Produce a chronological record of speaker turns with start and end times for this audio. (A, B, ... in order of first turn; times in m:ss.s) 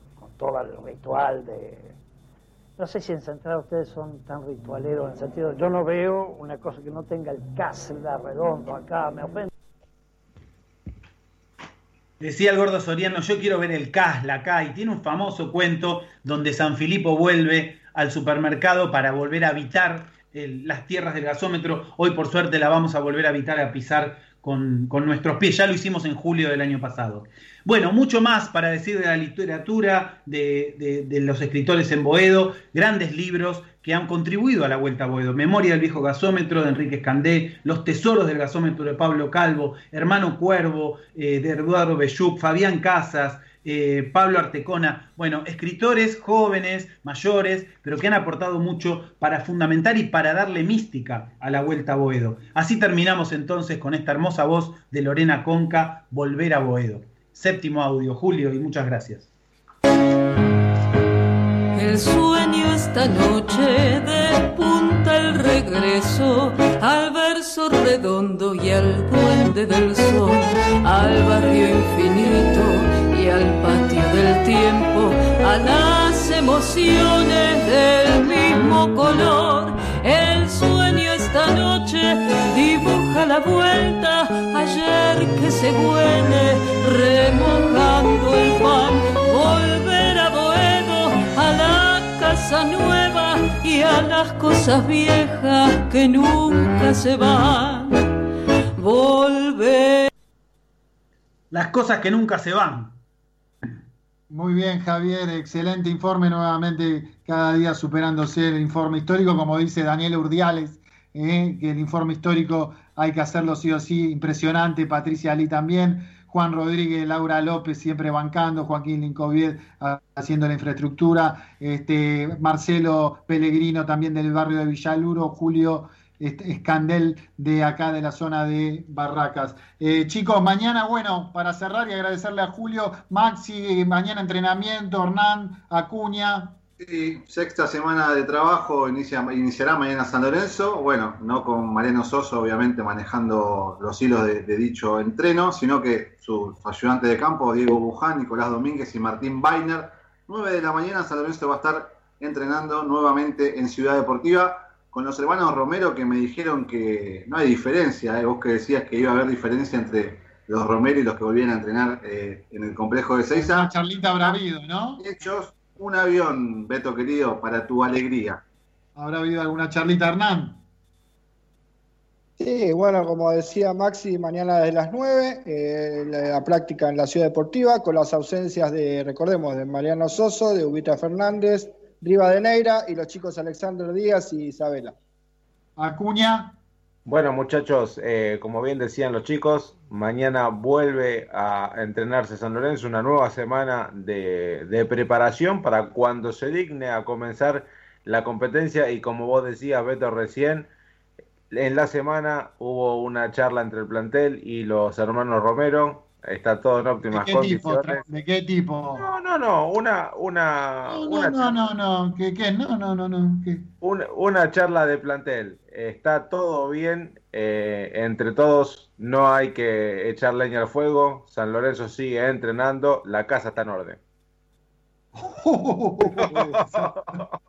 0:00.2-0:02.0 A
0:02.8-0:09.5 A
0:12.2-0:59.3 B
1:01.7-1:38.1 C
1:38.8-1:40.1 C
1:41.5-1:43.0 B
1:44.3-2:16.6 D
2:16.8-2:43.7 E
2:43.4-2:45.0 D
2:45.0-2:48.4 E
2:49.0-2:50.6 D
2:52.4-3:05.0 F
3:05.8-3:06.6 D
3:07.0-3:20.7 G
3:21.5-3:28.0 G
3:27.1-3:29.0 D
3:29.0-3:31.7 G
3:30.9-3:33.6 D
3:33.8-3:44.0 G
3:45.2-3:47.2 D
3:46.2-3:47.3 G